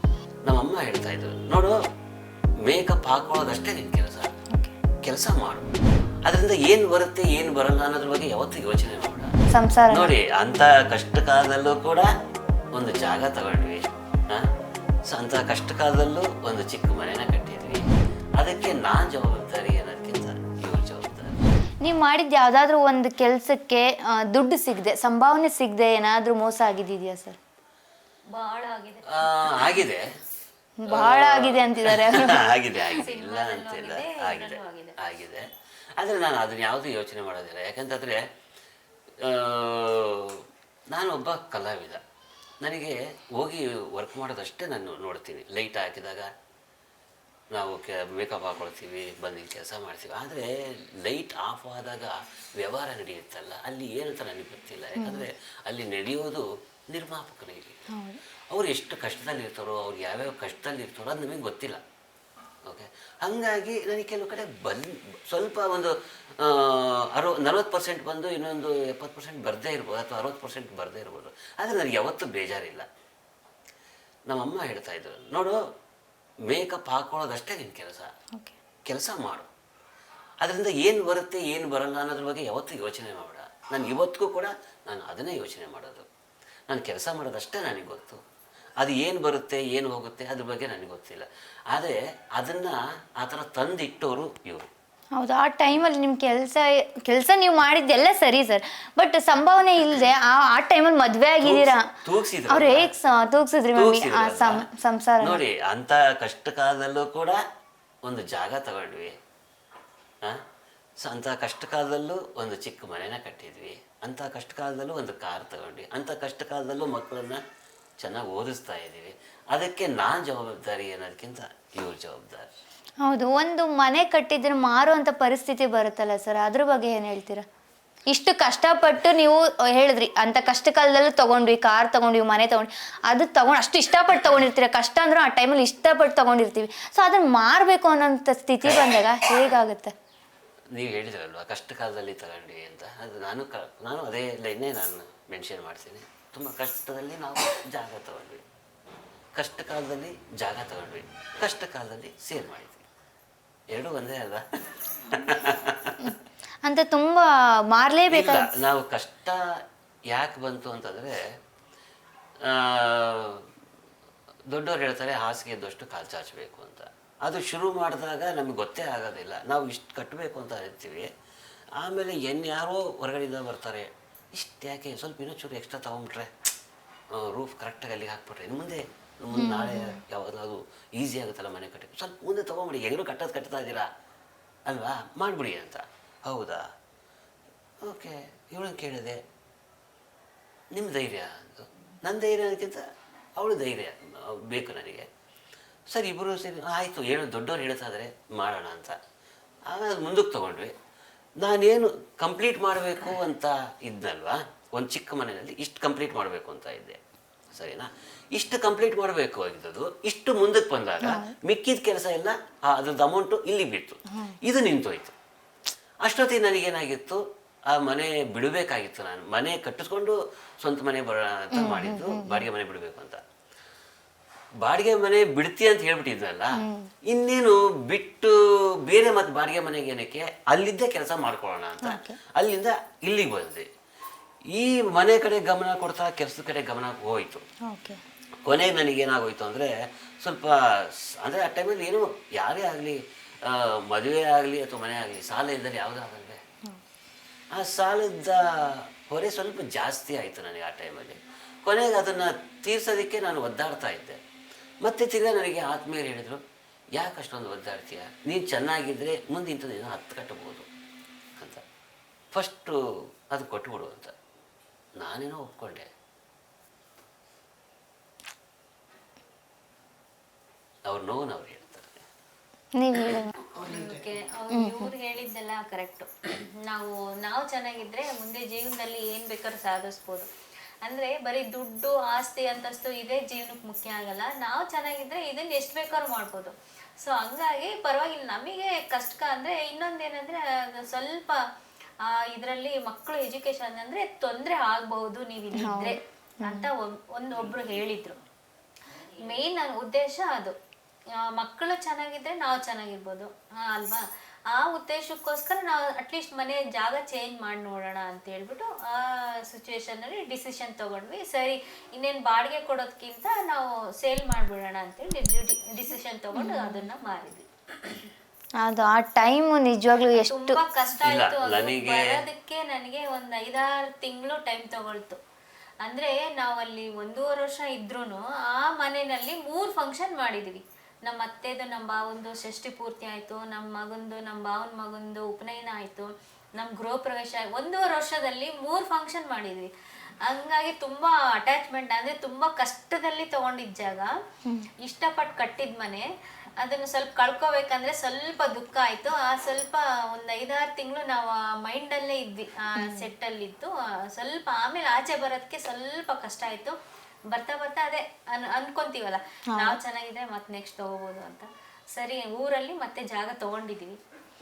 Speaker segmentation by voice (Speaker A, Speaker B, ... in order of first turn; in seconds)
Speaker A: 0.5-1.8, 2.6-4.3, 5.0-5.7, 6.2-9.3, 9.9-12.1, 12.7-14.4, 15.1-17.8, 18.4-21.4, 29.1-30.1, 30.9-35.5, 36.0-38.2, 39.2-42.0, 42.6-46.3, 47.5-57.8, 58.5-61.8, 62.7-72.8, 74.3-75.6, 76.5-78.1, 78.9-79.5, 80.4-86.1, 86.7-88.2, 88.8-94.7, 101.4-102.9, 103.8-104.7, 105.2-107.4, 108.0-109.1, 111.0-117.4, 118.0-122.5, 138.7-138.9, 140.7-148.4, 149.3-152.8, 153.7-155.9, 158.1-159.4, 160.1-161.2, 162.5-163.4, 164.5-171.1, 171.8-176.3, 177.2-183.9, 184.7-186.6, 187.8-189.2, 190.7-192.8, 193.4-195.1, 195.9-199.0, 199.7-200.7, 201.4-207.0, 207.5-215.1, 216.0-217.2, 217.7-223.2, 224.6-226.6, 227.1-233.7, 234.5-237.4, 238.4-239.7, 240.2-246.4, 247.5-254.2, 254.8-256.4, 257.0-260.7, 262.3-262.8, 263.3-264.1, 265.0-265.9, 270.9-272.0, 321.0-322.1
Speaker B: 9.5-10.1, 21.8-27.4, 30.8-32.4, 55.0-55.3, 57.9-58.2, 95.2-101.8, 102.5-105.4, 123.0-127.4, 128.1-139.9, 156.6-158.4, 179.3-180.0, 211.0-211.3, 221.5-222.4, 226.6-226.9, 231.8-232.2, 237.7-238.0, 272.8-273.3, 274.5-274.9, 295.5-296.7, 316.3-316.9, 318.6-320.6, 352.8-353.1, 359.5-359.8
Speaker C: 28.3-29.8, 32.8-35.0, 273.6-280.3, 280.8-291.4, 292.0-298.2, 299.1-300.6, 301.2-318.1, 320.2-325.2, 325.8-339.7, 340.2-344.1, 344.8-346.1, 346.6-356.7, 357.3-364.0